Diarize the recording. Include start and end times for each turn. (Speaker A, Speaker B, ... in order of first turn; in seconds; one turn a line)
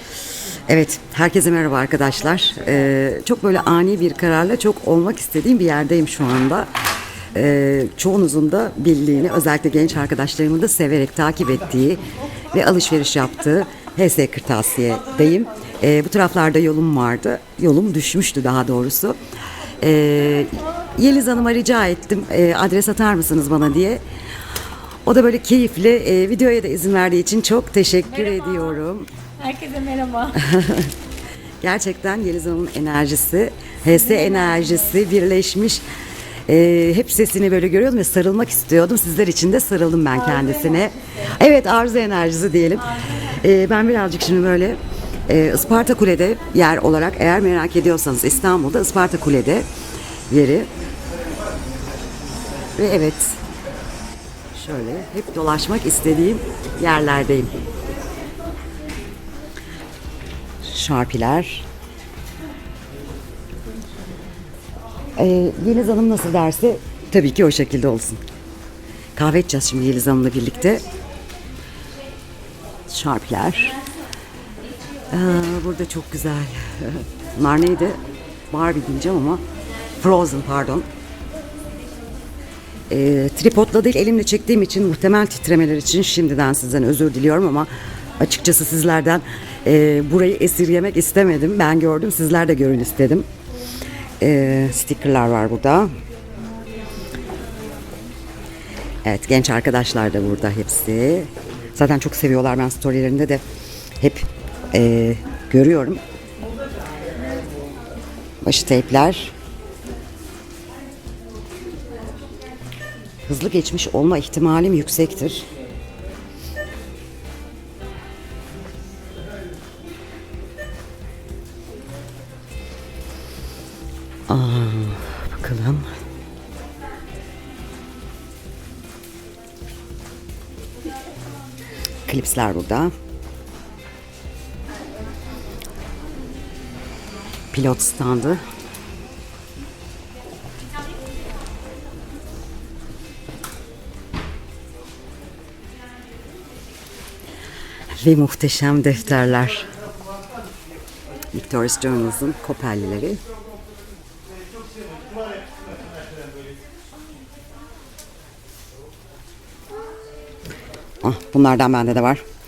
Speaker A: 0.6-6.7
Speaker A: 7.3-19.2
Speaker A: 19.8-24.0
Speaker A: 25.0-29.1
Speaker B: 28.1-28.8
Speaker B: 29.4-30.5
Speaker A: 30.4-30.9
Speaker A: 31.6-35.8
Speaker B: 33.9-34.9
Speaker A: 36.5-49.7
Speaker B: 40.1-41.1
Speaker B: 42.9-43.2
Speaker A: 50.3-50.7
Speaker A: 52.8-53.4
Speaker A: 54.5-57.5
Speaker A: 60.6-61.6
Speaker A: 65.2-68.2
Speaker A: 69.2-70.9
Speaker A: 72.9-73.8
Speaker A: 75.1-79.4
Speaker A: 80.0-80.9
Speaker A: 82.9-93.3
Speaker A: 94.2-95.9
Speaker A: 99.0-103.4
Speaker A: 104.0-106.0
Speaker A: 108.4-109.3
Speaker A: 113.2-115.5
Speaker A: 124.3-125.9
Speaker A: 132.1-132.9
Speaker A: 137.5-138.4
Speaker A: 147.9-149.7
Speaker A: 151.3-153.2
Speaker A: 161.0-162.2